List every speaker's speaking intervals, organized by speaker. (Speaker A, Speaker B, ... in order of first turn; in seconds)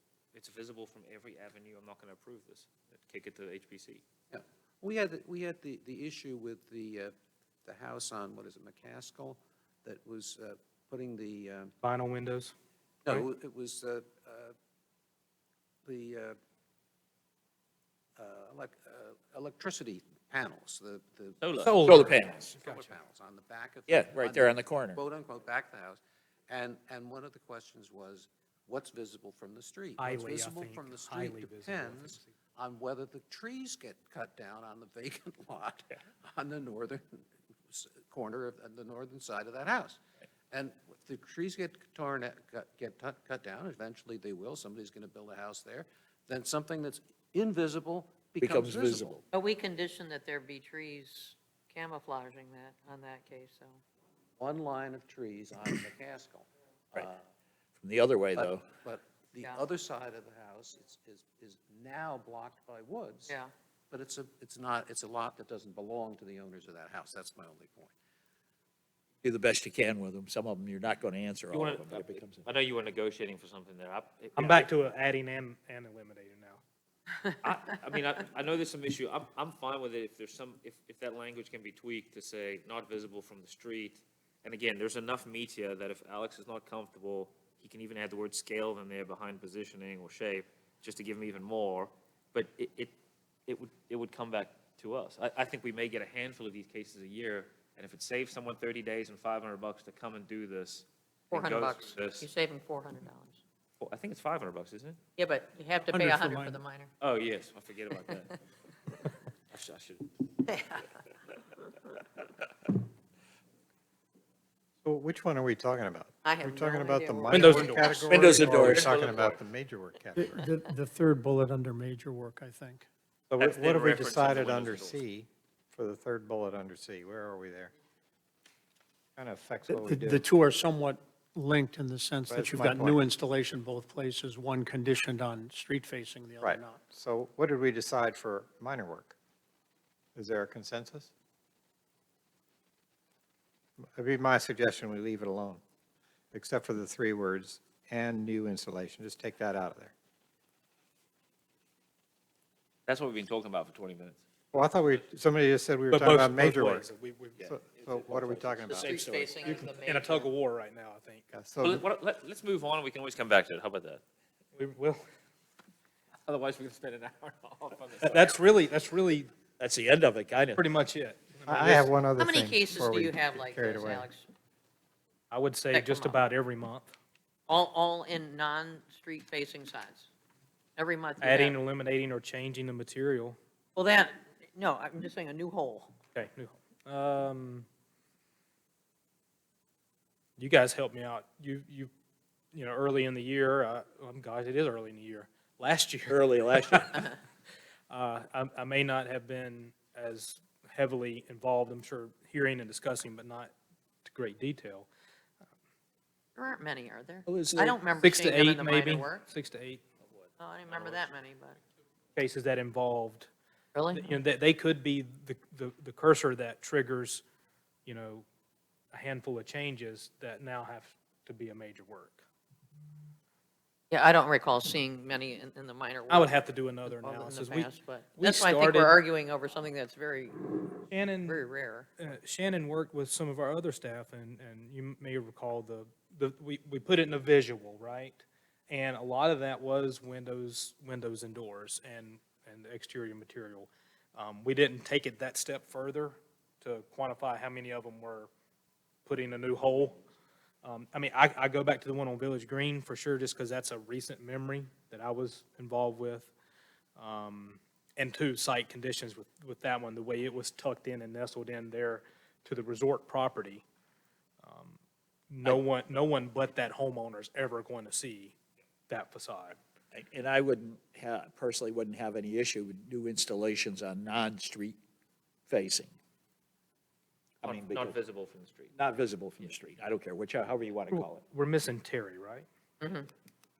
Speaker A: 0.3-4.0, 21.4-21.8, 71.5-74.7, 77.4-92.9, 93.5-102.3, 103.8-105.0, 107.0-108.4, 109.5-110.1, 118.5-119.4, 123.4-125.0, 152.9-154.2, 161.6-164.0, 166.2-168.4, 210.2-211.1, 277.4-278.7
Speaker B: 4.3-7.1, 7.6-11.7, 13.0-14.5, 15.8-16.4, 18.2-40.0, 40.5-49.2, 54.4-57.2, 58.3-63.4, 63.9-67.9
Speaker C: 11.8-12.5, 22.6-22.9, 30.0-32.2, 75.2-76.5, 117.3-117.8, 155.9-157.3, 160.4-161.2, 164.6-164.9, 168.6-169.2, 170.6-171.8, 175.3-176.9, 181.3-183.3, 186.1-187.6, 190.4-191.9, 192.5-196.0, 197.9-203.5, 204.0-204.8, 208.1-209.8, 212.2-213.3, 214.1-217.2, 217.8-218.2, 218.9-222.2, 226.1-228.9, 230.9-231.3, 232.0-248.3, 249.1-249.9, 250.6-256.3, 257.0-263.6, 264.4-264.8, 265.3-268.3, 268.9-269.5, 281.7-282.4
Speaker D: 12.0-12.4, 74.4-76.1, 105.8-106.6, 117.3-118.2, 120.2-122.8, 129.7-136.8, 159.8-160.8, 168.2-168.9, 175.5-176.6, 181.2-181.7, 207.9-209.6, 213.9-214.8, 226.1-229.0, 231.0-231.4, 265.4-266.4, 281.3-281.8
Speaker E: 21.8-22.6, 23.9-25.0, 48.4-49.2, 57.8-58.6, 69.2-72.4, 118.1-118.9, 158.1-159.7, 169.6-170.6, 196.1-197.1, 207.3-207.8, 269.9-274.8, 275.5-275.9, 277.4-278.0, 278.7-281.2
Speaker F: 49.3-53.8, 63.3-63.5, 101.3-103.4, 105.2-106.9, 116.2-118.1, 158.6-160.3, 172.2-174.3, 175.7-176.2, 177.5-180.1, 180.8-181.6, 183.8-185.9, 206.3-209.3, 210.4-211.6, 213.7-214.1, 223.9-230.7, 231.2-231.9, 282.8-283.1
Speaker G: 114.8-120.4, 123.3-127.7, 129.2-130.2, 132.3-133.0, 136.4-139.1, 140.1-141.1, 143.8-145.6, 146.3-149.9, 154.5-156.8, 157.4-158.9, 161.3-161.8, 171.5-174.1